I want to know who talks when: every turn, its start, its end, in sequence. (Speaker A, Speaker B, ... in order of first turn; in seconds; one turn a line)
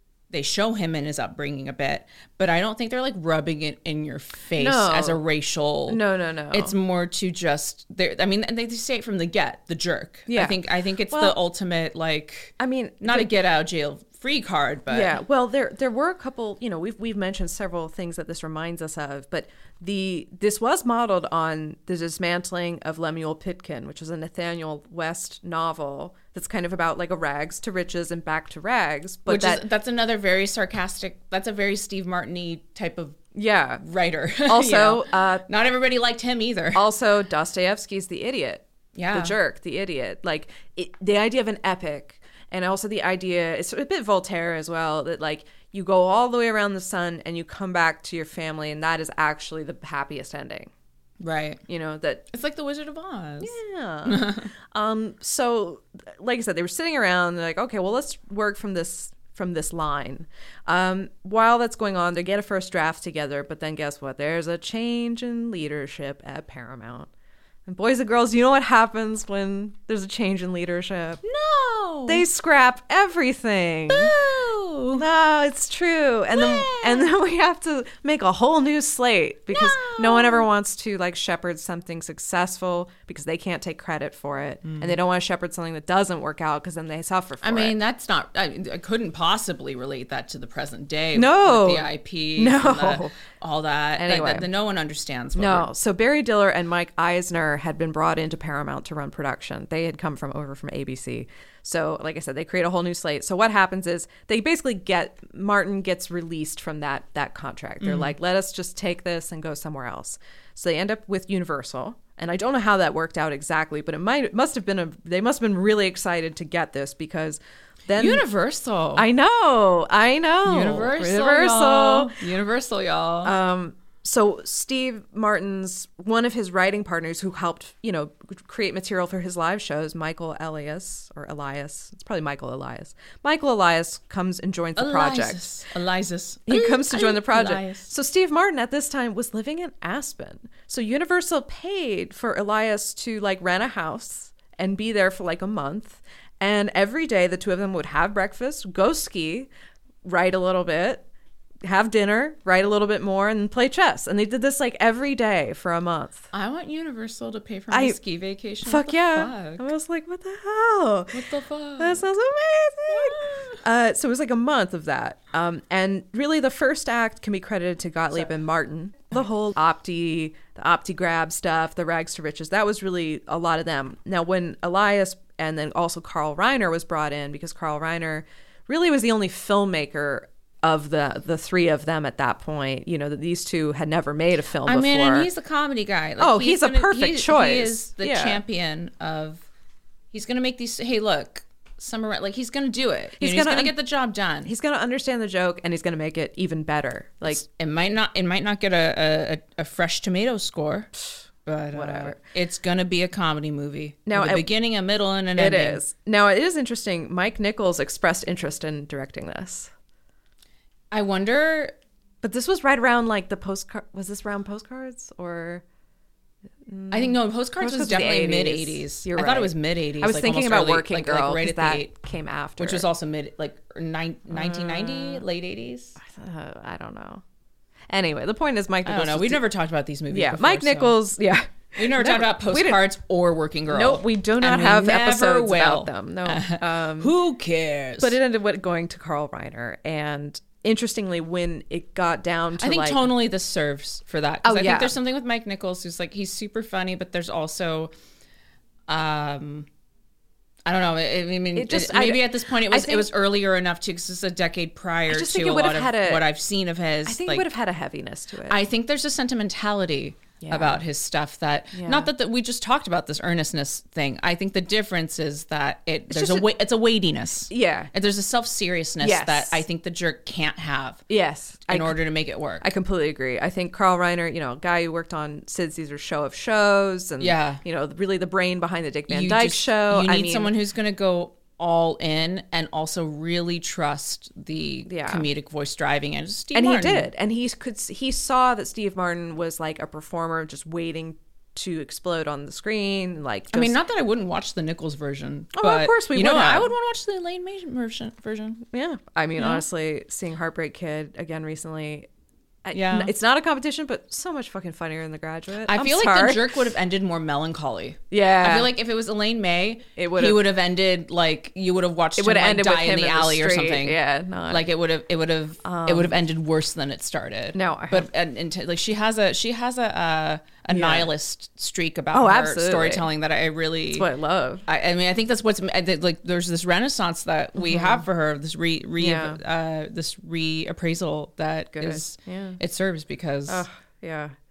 Speaker A: 0.3-6.0
Speaker B: 4.6-5.2
Speaker B: 5.9-6.8
Speaker A: 6.5-15.2
Speaker B: 10.3-11.4
Speaker B: 12.6-13.3
Speaker B: 14.9-29.6
Speaker A: 29.3-33.2
Speaker B: 33.4-33.8
Speaker A: 33.8-36.9
Speaker B: 34.5-35.5
Speaker B: 36.8-50.7
Speaker A: 39.0-39.4
Speaker A: 51.2-51.6
Speaker B: 51.7-52.2
Speaker A: 52.3-54.5
Speaker B: 53.4-67.1
Speaker B: 67.7-71.2
Speaker A: 71.2-72.2
Speaker B: 72.1-74.2
Speaker A: 73.9-75.0
Speaker B: 75.0-87.8
Speaker A: 76.3-77.1
Speaker A: 79.5-80.5
Speaker A: 84.7-85.0
Speaker A: 87.4-95.7
Speaker B: 91.2-93.1
Speaker B: 94.0-94.5
Speaker B: 95.4-118.2
Speaker A: 107.8-108.1
Speaker A: 117.9-119.1
Speaker B: 119.0-122.2
Speaker A: 120.4-123.3
Speaker B: 123.2-135.5
Speaker A: 134.8-137.9
Speaker B: 136.5-149.5
Speaker B: 150.1-151.1
Speaker B: 151.7-156.3
Speaker A: 156.3-159.6
Speaker B: 157.7-158.0
Speaker B: 158.7-161.2
Speaker A: 161.1-162.0
Speaker B: 161.8-185.3
Speaker A: 162.9-163.6
Speaker A: 184.7-189.4
Speaker B: 186.2-188.4
Speaker A: 190.1-194.5
Speaker B: 193.2-193.8
Speaker B: 194.4-197.4
Speaker A: 197.3-200.9
Speaker A: 201.4-205.8
Speaker B: 201.7-202.2
Speaker B: 204.1-204.5
Speaker B: 205.3-209.7
Speaker A: 210.9-211.7
Speaker B: 212.2-215.6
Speaker B: 216.7-222.9
Speaker A: 216.9-221.9
Speaker A: 222.6-226.0
Speaker B: 224.3-225.2
Speaker B: 226.0-227.2
Speaker B: 227.9-229.4
Speaker A: 228.8-231.0
Speaker B: 230.1-232.8
Speaker A: 231.8-238.2
Speaker B: 233.7-237.1
Speaker B: 238.0-243.1
Speaker A: 242.6-247.9
Speaker B: 244.4-245.0
Speaker A: 248.9-249.7
Speaker A: 250.7-257.5
Speaker B: 251.6-253.1
Speaker B: 255.1-256.3
Speaker B: 257.1-258.6
Speaker A: 258.5-271.0
Speaker B: 260.4-260.8
Speaker B: 261.7-262.1
Speaker B: 266.1-266.5
Speaker B: 267.5-267.9
Speaker B: 269.0-269.6
Speaker B: 271.1-272.0
Speaker A: 271.7-272.7
Speaker B: 272.6-280.5
Speaker A: 277.2-277.6
Speaker A: 279.1-287.1
Speaker B: 284.9-285.3
Speaker B: 286.5-293.8
Speaker A: 293.5-298.6
Speaker B: 295.5-296.7
Speaker B: 298.7-302.1
Speaker A: 299.4-299.6
Speaker B: 302.6-306.6
Speaker A: 302.7-303.1
Speaker A: 305.7-324.1
Speaker B: 308.1-308.7
Speaker B: 310.0-310.4
Speaker B: 312.2-314.7
Speaker B: 315.6-316.2
Speaker B: 317.5-318.1
Speaker B: 320.7-321.1
Speaker B: 322.1-323.1
Speaker B: 323.9-324.6
Speaker A: 324.7-333.6
Speaker B: 327.6-328.0
Speaker B: 329.0-329.4
Speaker B: 331.7-332.6
Speaker B: 333.5-334.3